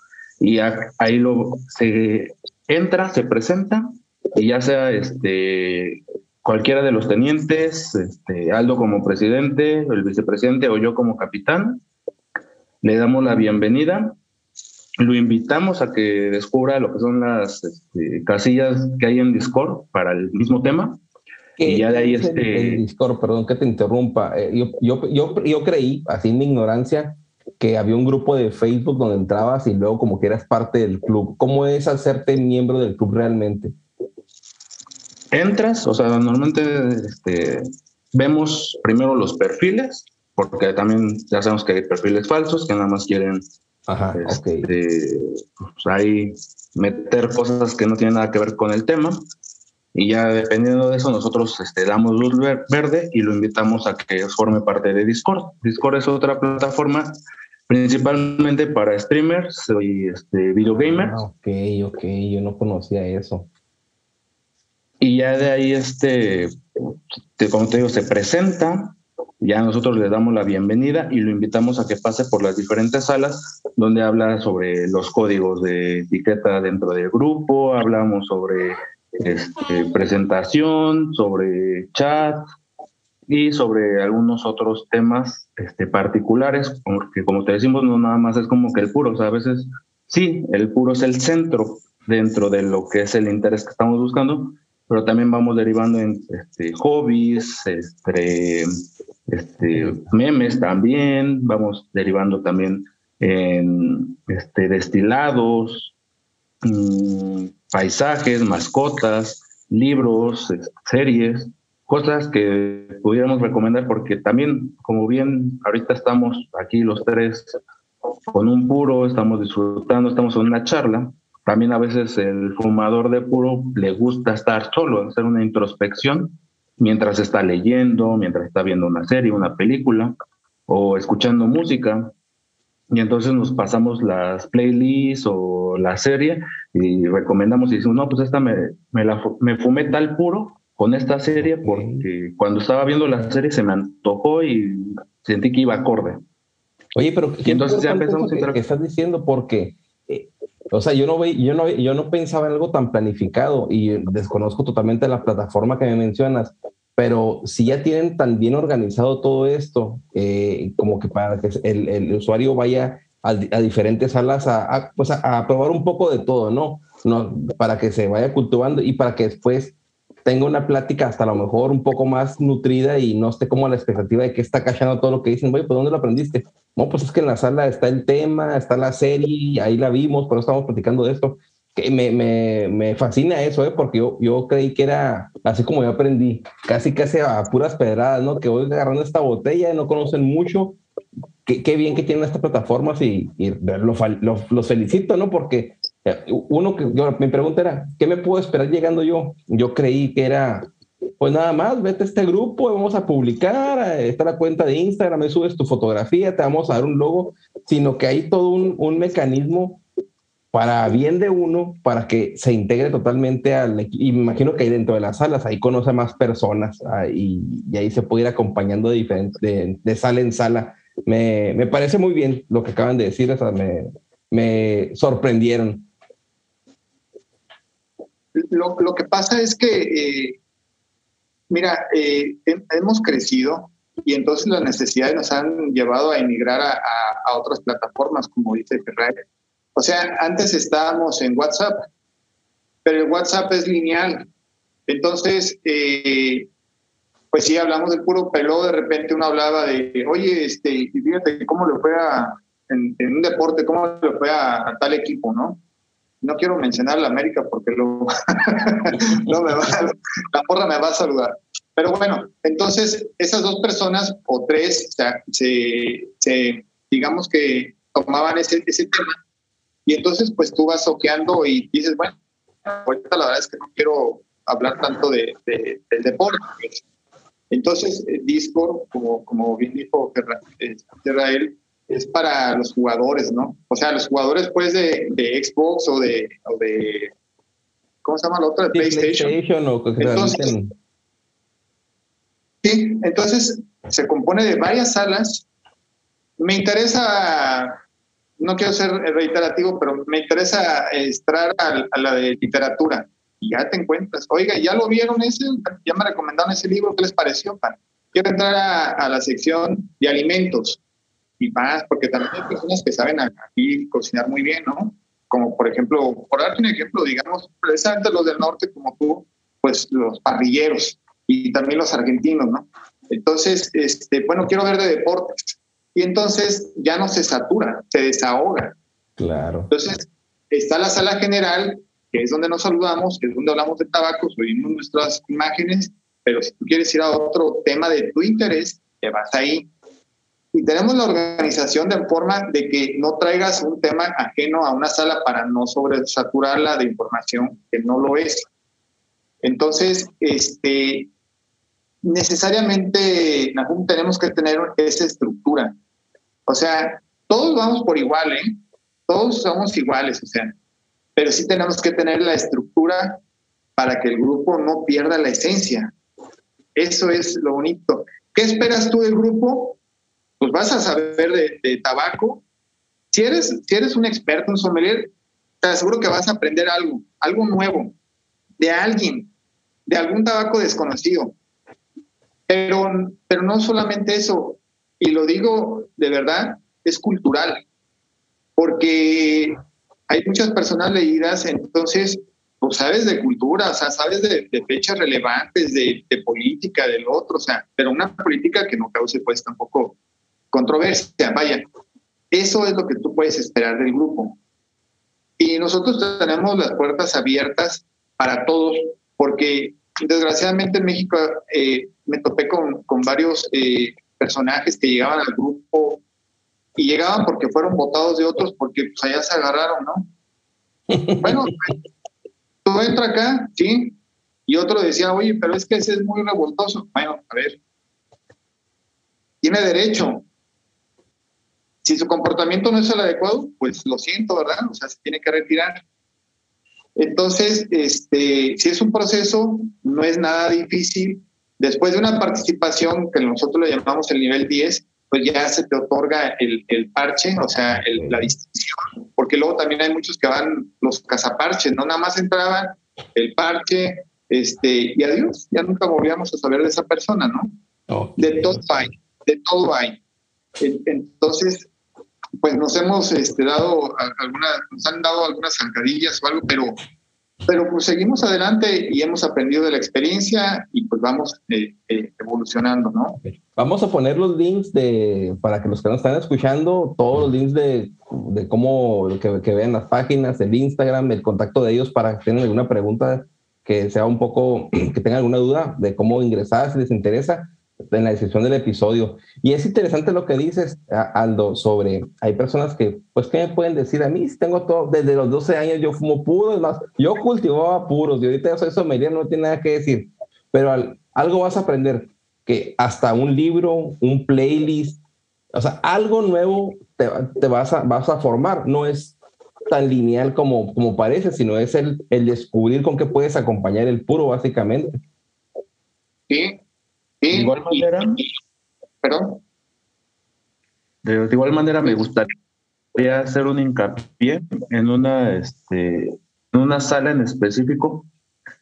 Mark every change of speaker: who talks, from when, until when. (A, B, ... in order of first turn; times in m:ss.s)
0:00.4-0:11.8 A
0:12.8-0:14.2 A
0:15.0-0:21.0 A
0:21.6-0:33.7 B
0:21.6-0:22.8 A
0:35.3-0:43.4 A
0:43.9-0:44.7 B
0:44.1-0:49.3 A
0:49.9-1:01.2 A
1:00.6-1:03.5 B
1:05.0-1:06.6 A
1:07.4-1:22.4 A
1:23.3-1:38.7 A
1:39.3-1:45.9 A
1:39.7-1:40.0 B
1:46.6-1:57.6 A
1:58.3-2:10.2 A
2:10.7-2:12.1 A
2:12.9-2:26.2 A
2:21.4-2:22.0 B
2:26.9-2:49.7 B
2:27.4-2:28.6 A
2:50.2-3:10.8 B
3:11.4-3:29.8 B
3:30.5-3:45.8 B
3:48.3-3:50.4 C
3:51.5-3:59.2 C
3:59.8-4:01.8 C
4:02.8-4:04.3 C
4:04.9-4:06.5 C
4:07.3-4:15.6 C
4:16.2-4:29.2 C
4:29.8-4:32.1 C
4:32.7-4:36.8 C
4:37.5-4:47.1 C
4:48.0-4:49.4 C
4:48.7-4:50.7 B
4:50.0-4:50.5 C
4:52.6-4:55.4 C
4:56.4-4:57.8 C
4:58.4-5:10.8 C
5:11.4-5:28.7 C
5:29.2-5:29.7 B
5:29.7-5:39.7 C
5:40.5-5:48.5 C
5:49.4-5:51.1 C
5:52.0-5:55.7 C
5:56.5-6:00.5 C
6:01.2-6:03.2 C
6:03.8-6:05.9 C
6:06.8-6:09.8 C
6:10.4-6:12.4 C
6:13.1-6:15.1 C
6:15.6-6:17.9 C
6:18.6-6:19.3 C
6:19.9-6:21.3 C
6:22.5-6:27.6 C
6:28.6-6:29.6 C
6:30.1-6:39.9 C
6:40.5-6:41.6 C
6:42.3-6:44.4 C
6:45.4-6:56.0 C
6:56.8-7:00.1 C
7:01.0-7:01.4 B
7:01.2-7:01.7 C
7:02.6-7:03.9 C
7:04.5-7:07.6 C
7:09.4-7:10.2 C
7:11.8-7:15.8 C
7:17.0-7:37.5 C
7:27.7-7:28.3 B
7:37.9-7:38.9 B
7:38.2-7:40.0 C
7:40.6-7:41.7 C
7:42.4-7:46.8 C
7:47.5-7:53.2 C
7:53.2-8:25.0 B
8:25.5-8:29.1 B
8:29.7-8:35.0 B
8:36.3-8:36.6 C
8:37.2-8:37.9 C
8:37.3-8:38.2 A
8:39.0-8:39.4 C
8:41.0-8:42.3 A
8:42.9-8:48.1 A